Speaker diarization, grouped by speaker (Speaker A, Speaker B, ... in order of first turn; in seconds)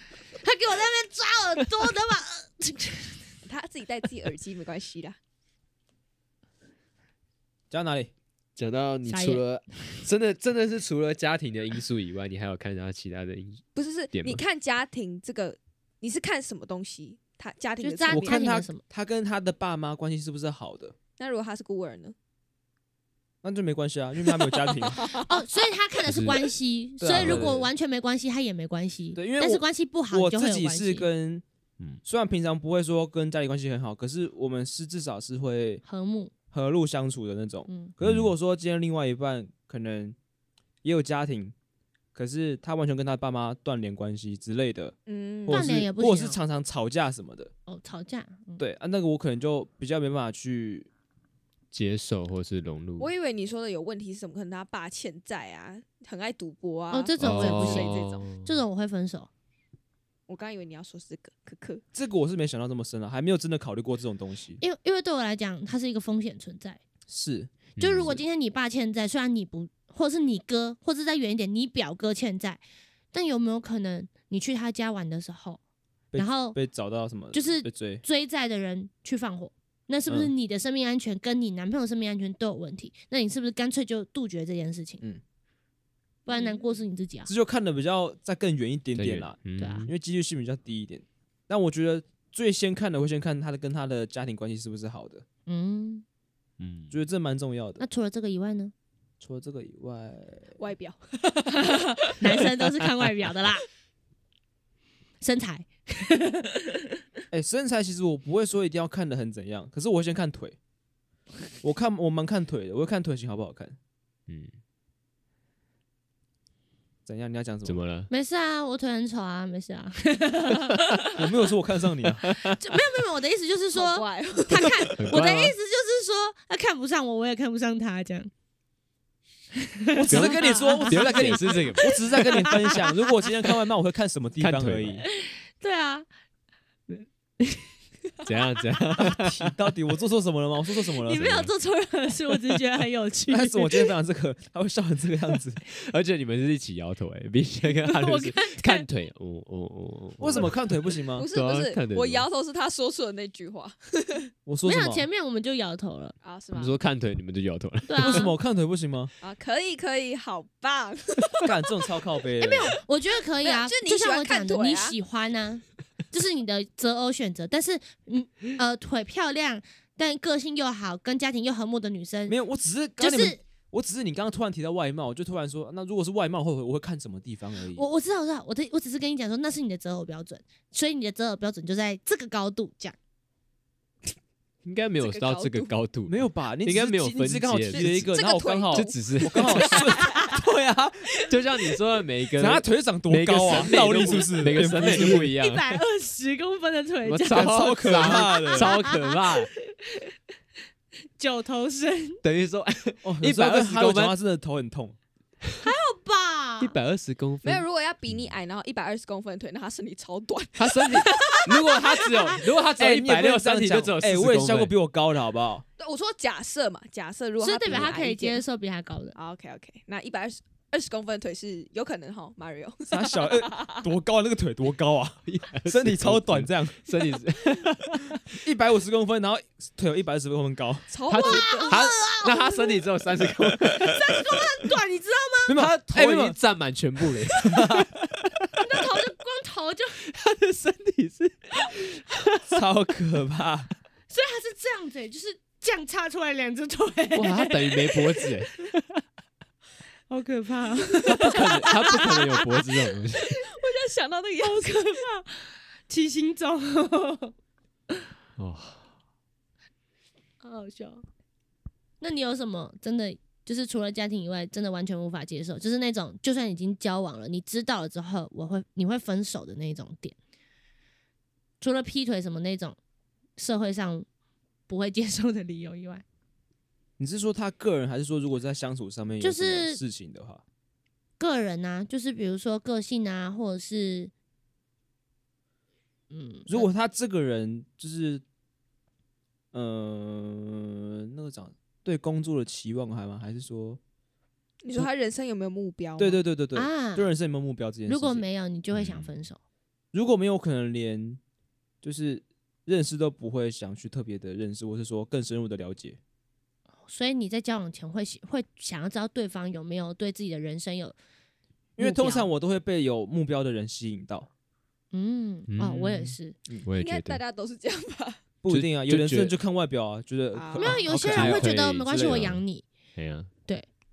Speaker A: 0.4-3.2, 9.1-9.4, 17.8-18.8, 25.1-31.1, 35.9-36.3, 45.5-46.4, 47.7-48.6, 56.9-59.3, 64.6-66.8, 67.8-72.6, 73.1-75.6, 76.2-76.6, 77.3-85.0, 86.3-87.3, 89.6-89.9, 95.5-96.0, 97.8-98.7, 102.2-103.7, 105.2-106.8, 118.1-121.2, 122.5-128.3, 129.6-132.9, 135.1-136.1, 136.9-137.7, 141.0-143.9, 147.8-148.9, 154.7-156.1, 157.9-158.3, 162.4-172.4, 173.0-173.4, 177.8-183.0, 189.9-190.4, 194.6-200.1, 201.2-202.2, 205.6-206.8, 217.4-219.2, 231.2-232.8, 233.8-235.5, 238.6-240.0, 244.1-248.3, 250.1-252.5, 254.4-257.3, 260.4-261.0, 262.0-270.1, 271.6-272.8, 273.4-274.1, 274.7-276.0, 279.2-279.8, 281.2-284.1, 286.1-286.7, 296.6-297.1, 297.9-299.4, 306.9-310.9, 311.8-312.3, 314.9-316.4, 320.6-322.6
Speaker B: 3.5-5.2, 13.8-18.4, 21.2-22.1, 24.3-25.3, 45.1-45.7, 53.0-58.2, 60.3-61.8, 86.3-86.6, 100.6-102.2, 123.7-124.9, 151.2-154.3, 156.2-156.8, 159.2-161.8, 163.4-165.0, 185.0-185.7, 187.7-190.1, 207.4-212.4, 215.8-218.4, 219.2-223.7, 230.9-231.8, 253.3-255.0, 294.6-296.2, 316.8-318.2, 320.3-320.8
Speaker C: 7.7-8.1, 18.1-20.9, 23.4-25.1, 27.0-27.6, 29.2-31.4, 32.0-35.8, 36.5-40.2, 40.8-41.5, 42.1-45.0, 45.5-47.5, 48.6-50.9, 61.9-64.6, 67.1-67.5, 76.1-78.0, 80.1-80.3, 87.3-95.2, 96.9-97.8, 99.2-100.6, 107.3-110.6, 111.6-113.8, 117.1-117.8, 121.1-122.3, 130.0-135.0, 139.0-141.4, 143.3-145.6, 150.2-151.3, 154.5-155.1, 158.0-159.1, 161.4-162.8, 172.3-177.9, 186.1-191.2, 192.4-195.3, 197.3-198.7, 203.0-205.0, 212.8-215.6, 222.9-226.8, 228.4-230.9, 235.5-236.4, 237.3-237.9, 242.5-243.7, 277.0-280.4, 286.5-288.2, 289.5-293.8, 296.0-298.2, 299.9-301.2, 301.8-306.0, 311.8-314.3, 318.4-322.3
Speaker D: 8.6-14.4, 26.1-26.4, 27.1-27.6, 38.0-38.3, 51.7-53.1, 57.2-58.6, 67.8-68.2, 89.0-89.9, 96.6-96.9, 117.7-118.1, 122.2-122.6, 125.0-125.5, 130.1-132.3, 134.4-135.0, 138.2-139.5, 145.7-150.6, 151.3-152.3, 156.5-158.3, 184.6-188.1, 188.7-189.8, 191.3-195.8, 197.1-199.5, 202.2-204.2, 206.6-208.3, 210.6-214.7, 217.7-218.0, 225.3-228.2, 231.1-234.0, 235.5-237.9, 240.0-242.1, 247.1-248.8, 251.1-253.3, 258.4-258.8, 298.7-299.1, 315.5-317.2, 318.5-319.4, 320.9-322.4, 322.9-323.3